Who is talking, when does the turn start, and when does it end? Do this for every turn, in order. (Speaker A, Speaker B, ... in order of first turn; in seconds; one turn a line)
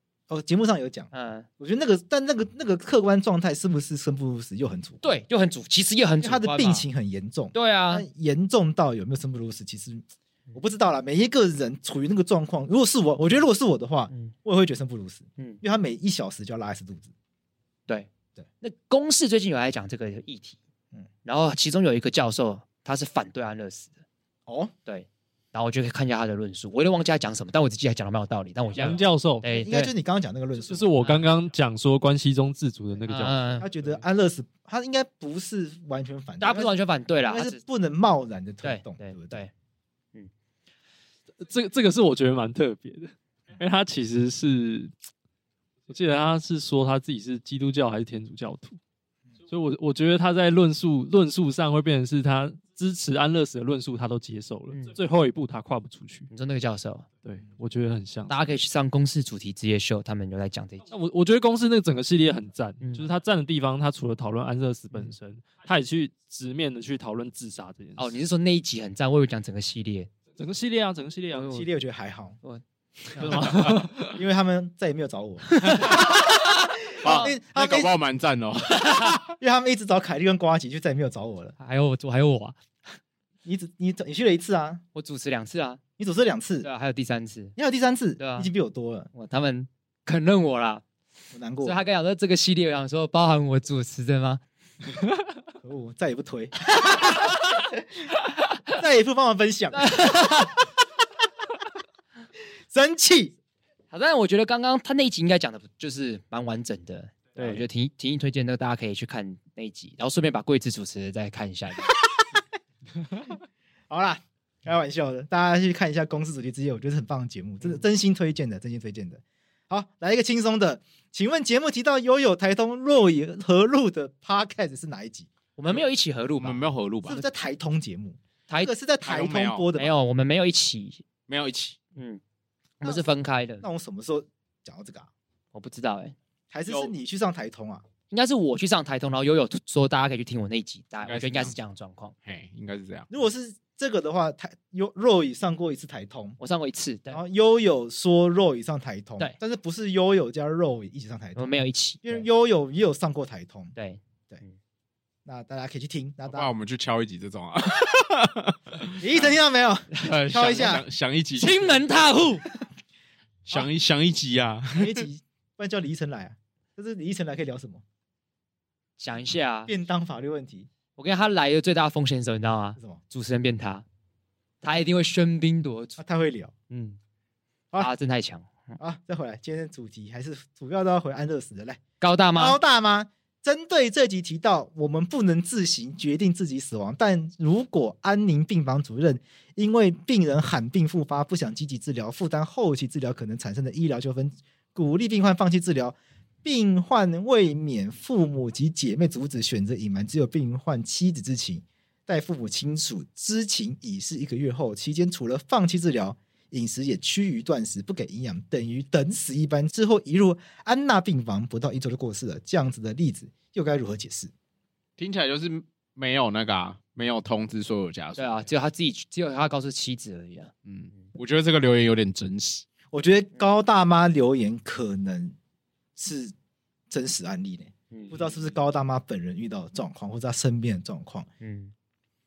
Speaker A: 0.3-5.0
Speaker B: 1.1-1.5
Speaker B: 5.0-6.9
Speaker A: 6.2-17.1
Speaker B: 7.5-8.1
Speaker B: 18.6-20.6
Speaker B: 21.2-24.0
Speaker A: 24.5-24.7
Speaker B: 24.9-29.9
Speaker C: 28.8-29.4
Speaker A: 29.4-30.9
Speaker C: 30.6-33.7
Speaker B: 31.0-31.3
Speaker B: 33.1-33.7
Speaker A: 33.6-36.7
Speaker B: 36.4-37.6
Speaker A: 37.2-39.4
Speaker B: 38.6-39.5
Speaker C: 41.4-44.9
Speaker C: 45.9-48.8
Speaker C: 49.5-56.3
Speaker B: 56.3-57.1
Speaker C: 57.2-58.4
Speaker B: 58.3-60.9
Speaker C: 60.9-68.2
Speaker B: 62.8-63.1
Speaker B: 68.0-70.1
Speaker C: 70.4-71.6
Speaker B: 71.3-71.7
Speaker A: 71.4-72.4
Speaker B: 73.1-73.6
Speaker A: 73.2-76.0
Speaker C: 73.2-74.1
Speaker B: 75.6-76.0
Speaker D: 75.7-76.0
Speaker D: 77.0-79.2
Speaker A: 77.0-78.0
Speaker B: 77.1-77.3
Speaker A: 79.2-81.6
Speaker B: 81.6-82.6
Speaker A: 83.5-84.8
Speaker B: 85.0-85.8
Speaker A: 86.0-86.7
Speaker B: 86.6-87.6
Speaker A: 87.6-89.1
Speaker B: 88.2-88.5
Speaker B: 89.1-90.8
Speaker A: 91.3-91.8
Speaker B: 91.6-94.4
Speaker A: 95.6-97.8
Speaker A: 98.7-100.2
Speaker B: 99.7-100.5
Speaker A: 102.7-103.4
Speaker B: 103.9-111.9
Speaker A: 113.9-125.3
Speaker B: 125.6-126.7
Speaker D: 126.4-127.2
Speaker A: 127.1-129.9
Speaker D: 129.0-129.7
Speaker B: 129.8-131.0
Speaker D: 131.3-131.8
Speaker B: 132.0-132.2
Speaker B: 132.8-133.7
Speaker A: 132.8-133.1
Speaker A: 133.6-135.1
Speaker B: 135.5-136.2
Speaker A: 136.5-137.8
Speaker D: 136.7-136.9
Speaker B: 138.1-142.2
Speaker D: 141.1-141.6
Speaker D: 142.2-143.1
Speaker A: 143.1-146.4
Speaker B: 146.4-147.2
Speaker A: 147.1-153.7
Speaker B: 151.4-152.3
Speaker B: 153.8-154.6
Speaker A: 155.3-156.5
Speaker D: 156.3-159.0
Speaker A: 159.0-160.8
Speaker D: 160.0-161.9
Speaker B: 161.4-162.4
Speaker D: 163.5-165.1
Speaker A: 164.8-167.8
Speaker B: 169.0-169.7
Speaker A: 169.7-170.7
Speaker B: 171.0-173.9
Speaker B: 174.6-176.0
Speaker A: 176.0-176.5
Speaker B: 176.7-177.0
Speaker B: 177.8-178.8
Speaker A: 178.8-181.8
Speaker B: 182.0-182.6
Speaker A: 182.3-214.3
Speaker D: 215.0-218.5
Speaker B: 218.2-221.1
Speaker D: 220.7-222.7
Speaker A: 222.9-225.4
Speaker A: 226.0-226.3
Speaker A: 226.9-231.3
Speaker B: 227.9-228.4
Speaker B: 231.4-231.7